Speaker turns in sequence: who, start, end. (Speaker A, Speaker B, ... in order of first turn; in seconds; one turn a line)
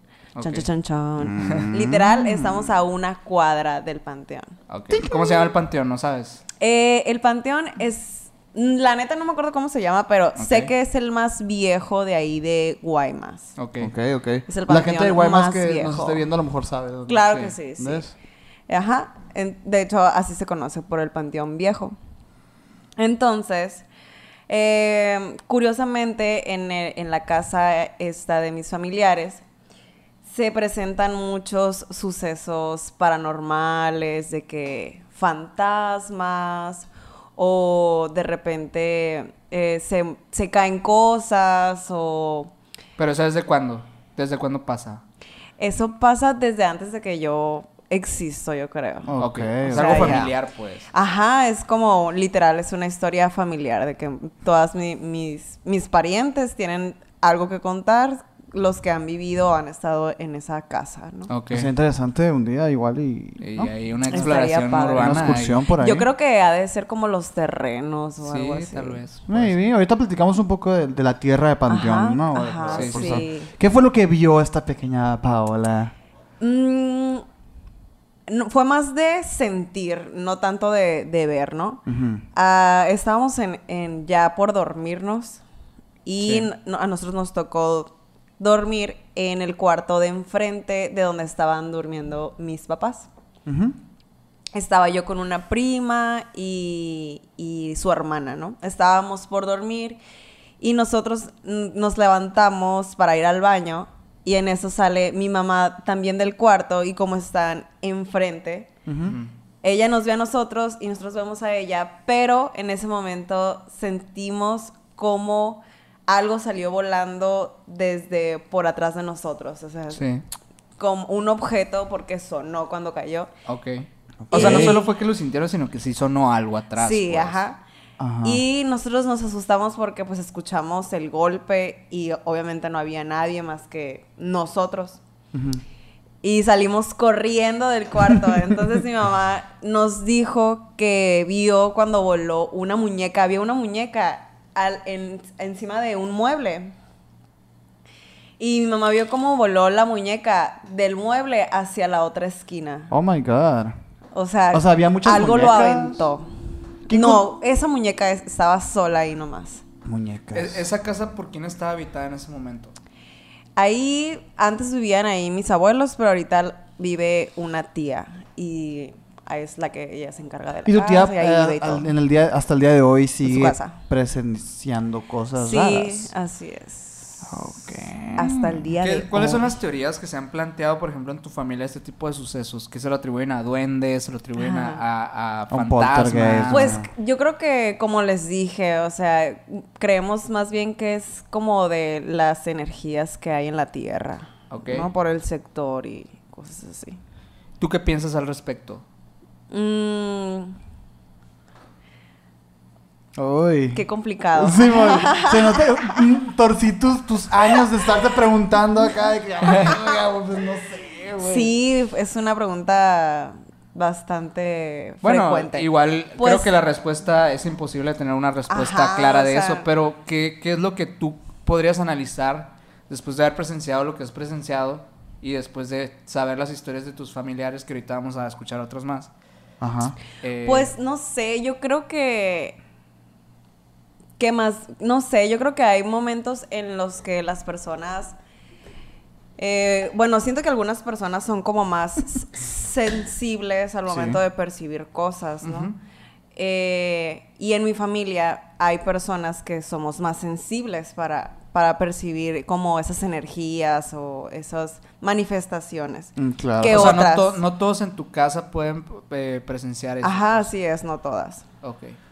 Speaker A: 0.3-0.7
Speaker B: 0.4-4.5
Speaker C: 1.2-2.7
Speaker A: 1.4-1.7
Speaker A: 4.7-6.4
Speaker C: 4.9-5.4
Speaker B: 6.6-13.5
Speaker A: 10.4-10.7
Speaker A: 13.6-13.9
Speaker C: 13.8-18.1
Speaker B: 14.5-16.2
Speaker B: 17.1-18.0
Speaker B: 18.7-21.9
Speaker B: 23.0-23.8
Speaker B: 24.5-29.4
Speaker B: 30.2-42.5
Speaker A: 43.0-45.0
Speaker B: 45.6-49.1
Speaker C: 49.0-50.3
Speaker A: 49.2-50.9
Speaker B: 49.7-50.3
Speaker B: 50.9-61.3
Speaker A: 61.3-61.7
Speaker C: 61.5-64.2
Speaker A: 63.4-65.6
Speaker B: 64.1-69.0
Speaker C: 64.9-66.1
Speaker A: 68.2-69.5
Speaker C: 69.3-75.9
Speaker B: 71.7-73.5
Speaker A: 72.7-73.3
Speaker B: 76.4-77.2
Speaker B: 78.3-85.4
Speaker C: 81.8-82.2
Speaker B: 86.0-93.1
Speaker A: 86.2-86.5
Speaker C: 93.5-93.8
Speaker B: 94.5-100.0
Speaker B: 100.6-108.7
Speaker C: 108.8-109.2
Speaker B: 109.6-120.1
Speaker A: 119.9-120.2
Speaker B: 120.8-123.3
Speaker A: 123.5-127.4
Speaker C: 124.2-124.8
Speaker B: 124.3-124.8
Speaker B: 126.8-127.6
Speaker C: 128.0-128.4
Speaker B: 128.2-135.0
Speaker C: 135.3-135.6
Speaker B: 136.2-146.7
Speaker B: 148.4-152.9
Speaker C: 152.9-153.8
Speaker B: 154.1-156.3
Speaker C: 154.5-156.1
Speaker C: 156.9-157.2
Speaker B: 156.9-159.6
Speaker C: 159.8-160.6
Speaker A: 160.3-162.7
Speaker B: 163.6-171.9
Speaker C: 170.7-176.1
Speaker B: 173.2-173.8
Speaker B: 175.4-177.5
Speaker C: 177.3-179.4
Speaker B: 178.1-179.4
Speaker A: 178.8-186.8
Speaker B: 184.3-184.8
Speaker C: 185.5-186.9
Speaker B: 186.5-197.0
Speaker A: 194.5-194.9
Speaker A: 197.6-198.8
Speaker B: 199.5-200.6
Speaker C: 203.2-203.8
Speaker B: 203.7-205.9
Speaker C: 204.4-211.5
Speaker B: 211.2-215.7
Speaker A: 215.0-229.1
Speaker B: 216.2-216.5
Speaker B: 218.5-219.7
Speaker C: 229.6-229.9
Speaker A: 230.2-230.7
Speaker B: 230.4-232.6
Speaker B: 234.2-238.2
Speaker B: 239.4-245.7
Speaker C: 243.9-244.2
Speaker A: 245.4-245.7
Speaker B: 246.3-257.4
Speaker C: 256.1-257.0
Speaker A: 256.7-260.5
Speaker B: 260.0-261.4
Speaker A: 261.6-262.0